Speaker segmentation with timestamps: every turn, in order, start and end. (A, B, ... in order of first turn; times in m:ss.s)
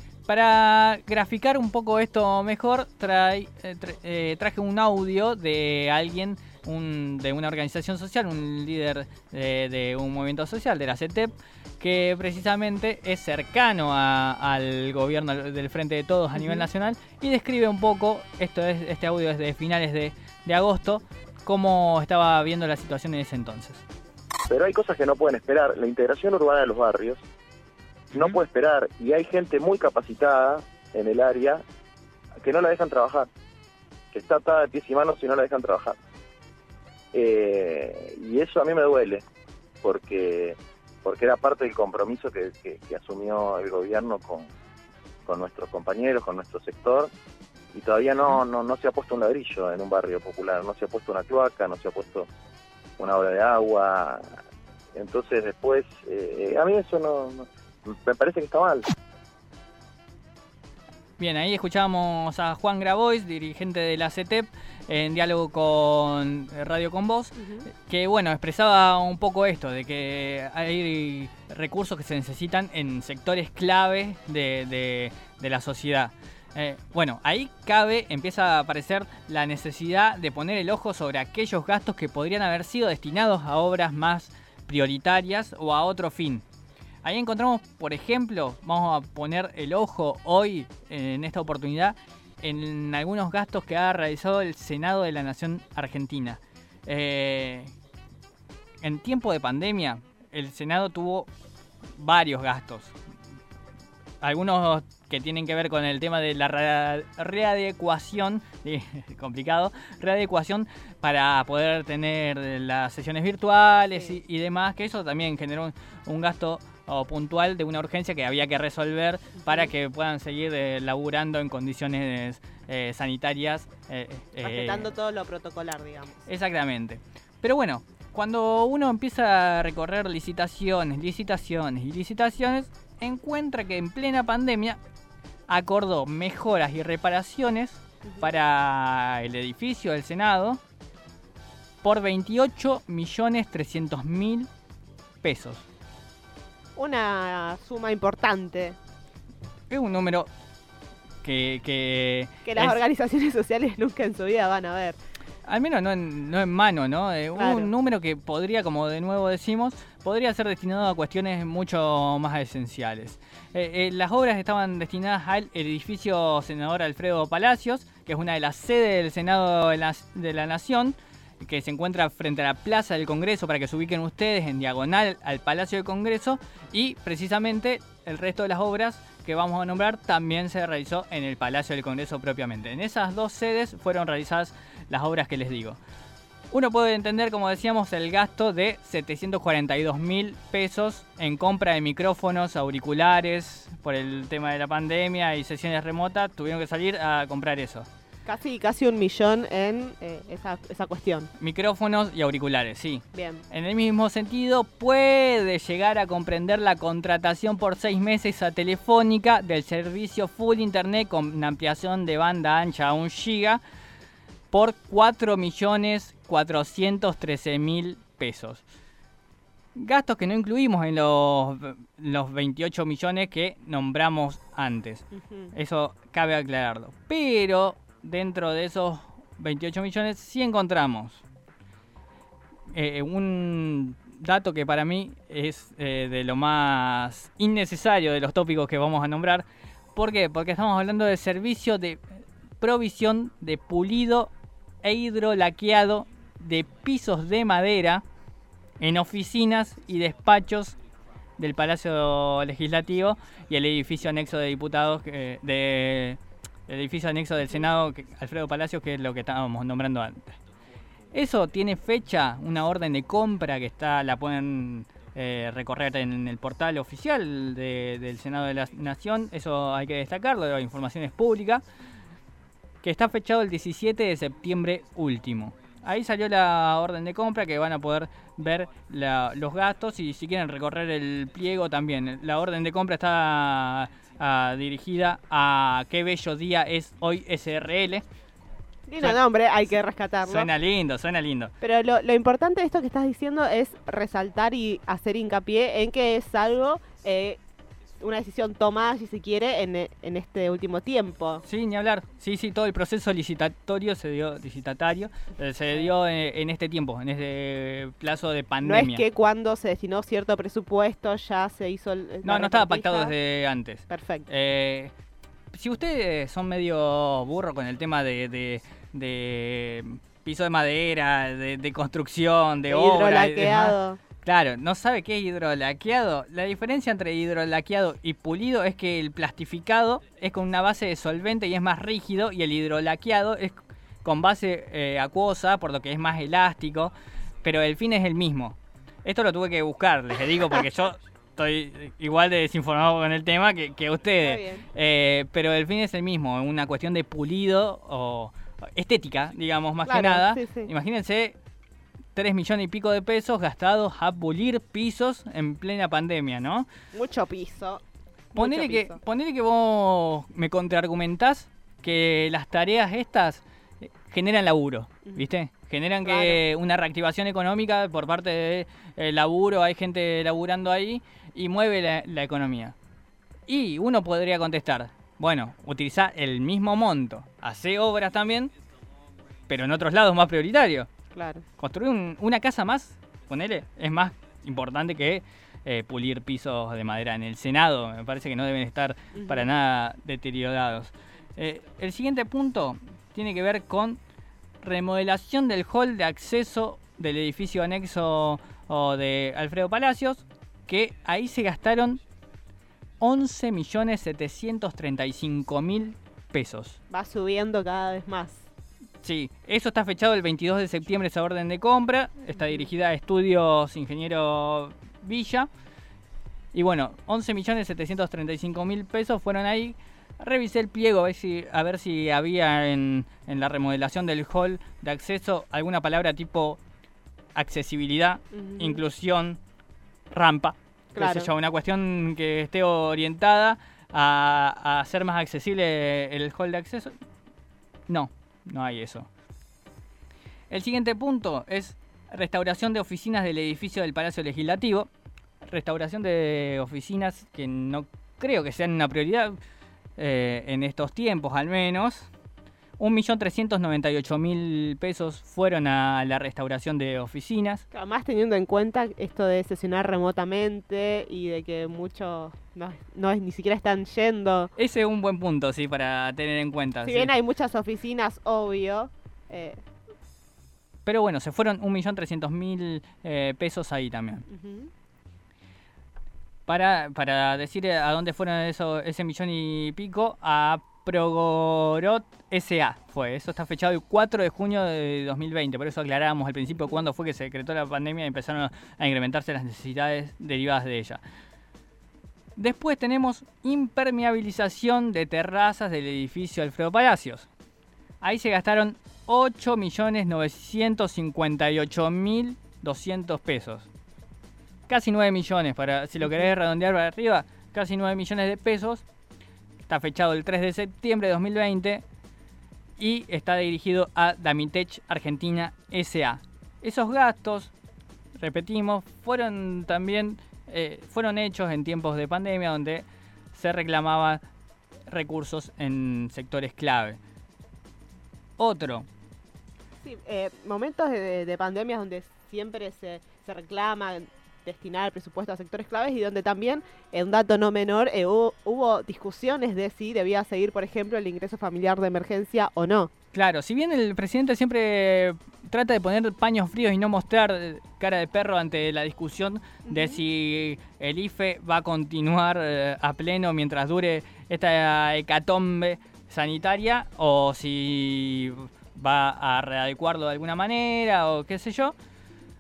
0:00.3-0:23.8 A
0:16.4-0:16.7 B
0:24.5-0:27.2 C
0:28.1-0:31.6 C
0:32.4-0:33.3 C
0:34.1-0:36.0 C
0:37.1-0:39.2 C
0:39.8-0:44.5 C
0:45.3-0:47.1 C
0:47.7-0:52.3 C
0:53.0-0:54.2 C
0:54.9-0:58.9 C
1:01.2-1:26.4 A
1:07.4-1:07.7 B
1:27.0-1:37.7 A
1:38.8-1:41.3 A
1:42.0-1:42.9 A
1:44.2-2:04.9 A
2:04.4-2:06.2 B
2:06.3-2:14.8 A
2:15.5-2:20.6 A
2:21.8-2:24.5 A
2:25.2-2:25.6 A
2:26.8-2:28.8 B
2:29.7-2:30.3 A
2:31.2-2:32.8 A
2:32.4-2:35.0 B
2:35.5-3:05.8 A
2:37.4-2:37.7 B
3:06.5-3:17.9 A
3:18.3-3:21.3 B
3:21.4-3:33.6 A
3:23.1-3:23.4 B
3:34.5-3:38.6 A
3:39.8-3:51.2 A
3:45.1-3:45.5 B
3:52.7-4:02.0 A
4:02.6-4:04.3 A
4:04.8-4:08.0 A
4:08.8-4:10.7 A
4:11.4-4:20.4 A
4:21.1-4:31.6 A
4:32.8-4:48.0 A
4:48.9-4:50.5 B
4:50.2-4:51.5 A
4:51.6-4:57.4 B
4:58.0-5:01.4 B
5:01.4-5:09.0 A
5:08.6-5:13.2 B
5:12.2-5:14.9 A
5:13.9-5:14.3 B
5:15.5-5:51.4 A
5:22.7-5:24.0 B
5:44.2-5:44.7 B
5:49.8-5:50.7 B
5:52.2-5:56.7 A
5:56.9-5:57.8 B
5:58.3-5:59.0 B
5:58.4-6:12.8 A
6:06.0-6:06.4 B
6:13.5-6:18.5 A
6:19.5-6:20.9 A
6:21.1-6:21.4 B
6:21.6-6:34.0 A
6:29.2-6:29.5 B
6:34.6-6:42.0 A
6:43.0-6:46.8 A
6:46.9-6:48.4 B
6:49.0-6:55.5 A
6:56.5-7:06.6 A
7:07.4-7:09.4 A
7:08.3-7:08.8 B
7:10.1-7:17.0 A
7:11.0-7:11.3 B
7:17.9-7:19.1 A
7:20.5-7:24.9 A
7:25.4-7:29.4 A
7:30.0-7:32.1 A
7:32.8-7:37.6 A
7:37.7-7:44.5 B
7:44.6-7:47.1 A
7:46.8-7:49.6 B
7:50.8-7:54.3 A
7:54.3-7:54.7 B
7:56.5-8:11.0 A
8:12.4-8:17.3 A
8:18.0-8:23.7 A
8:24.7-8:28.8 A
8:29.7-8:31.8 A
8:32.8-8:37.5 A
8:38.2-8:44.2 A
8:44.9-8:47.0 A
8:48.4-8:48.9 A
8:49.8-9:02.9 B
9:03.1-9:21.8 A
9:09.7-9:10.0 B